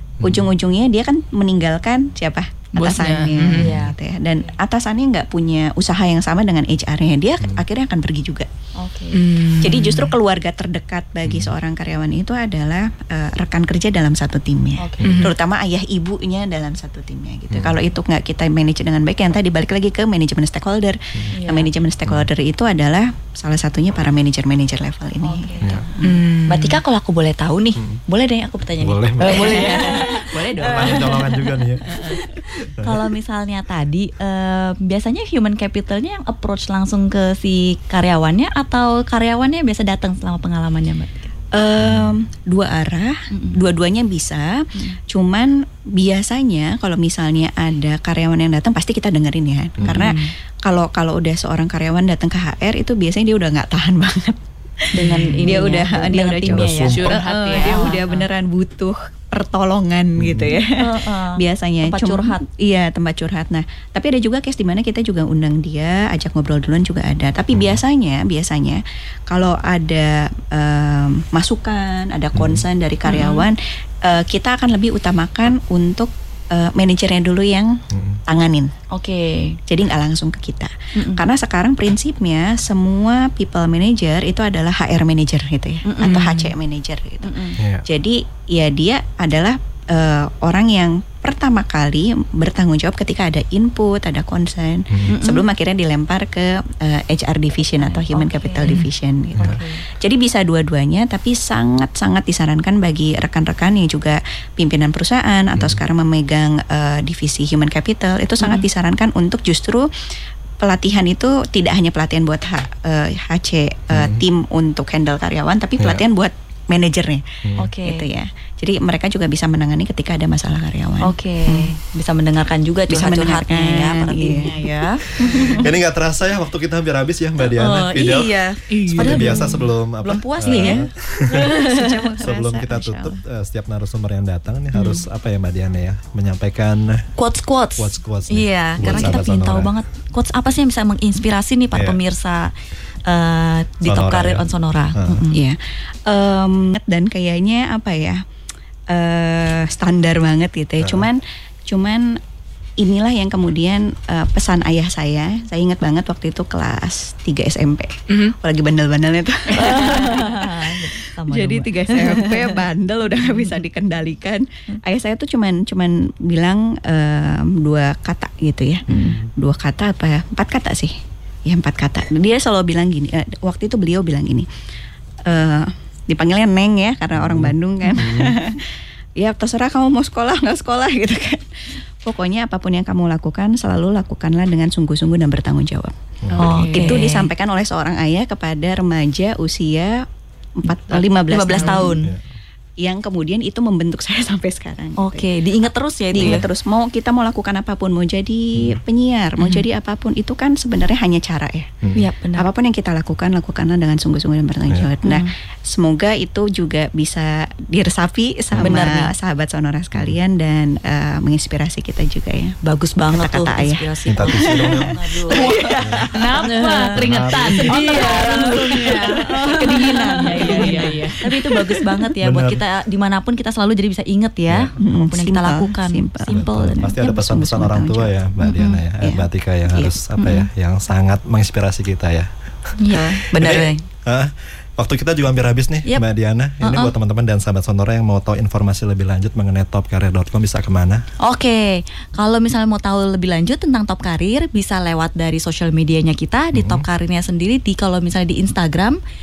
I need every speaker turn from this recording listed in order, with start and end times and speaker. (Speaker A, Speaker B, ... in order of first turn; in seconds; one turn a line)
Speaker A: 0.2-0.5
Speaker B: 0.2-8.5
Speaker C: 2.8-3.8
Speaker D: 3.5-4.5
Speaker D: 8.8-9.2
Speaker C: 9.1-10.1
Speaker B: 9.6-26.2
Speaker A: 11.2-11.6
Speaker D: 14.8-15.2
Speaker A: 15.0-15.3
Speaker C: 15.0-15.3
Speaker A: 17.5-17.8
Speaker D: 21.3-21.7
Speaker D: 25.2-25.8
Speaker C: 26.0-26.8
Speaker D: 26.5-41.3
Speaker A: 27.8-28.0
Speaker A: 28.8-32.0
Speaker C: 29.2-31.3
Speaker C: 31.9-32.2
Speaker A: 32.7-33.1
Speaker B: 41.5-78.7
Speaker A: 41.8-42.2
Speaker D: 43.3-43.6
Speaker A: 49.8-50.2
Speaker D: 49.9-50.3
Speaker D: 55.0-58.3
Speaker C: 55.0-55.6
Speaker A: 56.4-57.2
Speaker C: 56.9-58.0
Speaker A: 60.2-60.6
Speaker D: 60.7-62.4
Speaker A: 67.5-67.8
Speaker A: 72.3-72.6
Speaker D: 73.0-73.5
Speaker A: 77.9-78.2
Speaker D: 78.9-79.6
Speaker B: 79.7-109.9
Speaker D: 81.0-81.2
Speaker D: 85.8-86.5
Speaker D: 87.2-87.6
Speaker A: 87.6-87.8
Speaker A: 94.9-95.2
Speaker D: 95.1-95.5
Speaker D: 97.8-99.8
Speaker A: 99.4-99.6
Speaker A: 105.5-105.8
Speaker D: 108.4-108.7
Speaker B: 110.6-121.7
Speaker A: 113.9-114.2
Speaker A: 115.8-116.0
Speaker A: 117.4-117.7
Speaker D: 117.6-118.1
Speaker D: 121.0-125.7
Speaker B: 122.9-124.7
Speaker B: 125.2-125.6
Speaker A: 125.2-131.6
Speaker D: 127.4-132.1
Speaker C: 128.7-129.7
Speaker B: 130.5-130.8
Speaker B: 131.3-133.2
Speaker A: 132.2-137.1
Speaker D: 134.8-135.0
Speaker D: 137.2-142.5
Speaker A: 137.8-139.7
Speaker A: 141.7-142.0
Speaker D: 143.1-145.4
Speaker A: 143.8-145.2
Speaker B: 145.3-148.2
Speaker B: 148.9-152.2
Speaker A: 150.8-151.1
Speaker B: 152.8-170.9
Speaker C: 158.1-158.4
Speaker D: 159.6-162.6
Speaker D: 168.9-169.2
Speaker A: 168.9-169.3
Speaker B: 171.5-174.5
Speaker B: 175.3-181.5
Speaker A: 177.2-178.4
Speaker B: 182.0-185.9
Speaker A: 186.2-186.8
Speaker C: 186.4-187.1
Speaker D: 186.4-187.3
Speaker B: 186.7-190.1
Speaker B: 190.6-192.1
Speaker D: 190.7-192.1
Speaker C: 191.5-191.8
Speaker A: 192.0-192.3
Speaker B: 192.8-201.7
Speaker D: 195.0-196.5
Speaker D: 199.4-199.7
Speaker A: 201.8-202.1
Speaker D: 202.0-202.5
Speaker B: 202.4-212.6
Speaker D: 205.0-205.3
Speaker A: 208.5-208.8
Speaker D: 208.6-209.1
Speaker D: 212.6-216.9
Speaker B: 213.1-216.7
Speaker A: 214.1-216.2
Speaker C: 216.1-221.4
Speaker A: 216.9-217.8
Speaker B: 217.3-221.2
Speaker D: 217.7-227.0
Speaker A: 222.2-222.6
Speaker A: 224.5-224.8
Speaker B: 224.8-228.1
Speaker A: 226.3-241.1
Speaker D: 228.4-228.8
Speaker B: 229.0-229.9
Speaker D: 230.2-230.5
Speaker D: 232.8-233.8
Speaker B: 232.9-233.6
Speaker D: 236.6-236.9
Speaker D: 241.2-249.0
Speaker A: 246.5-246.9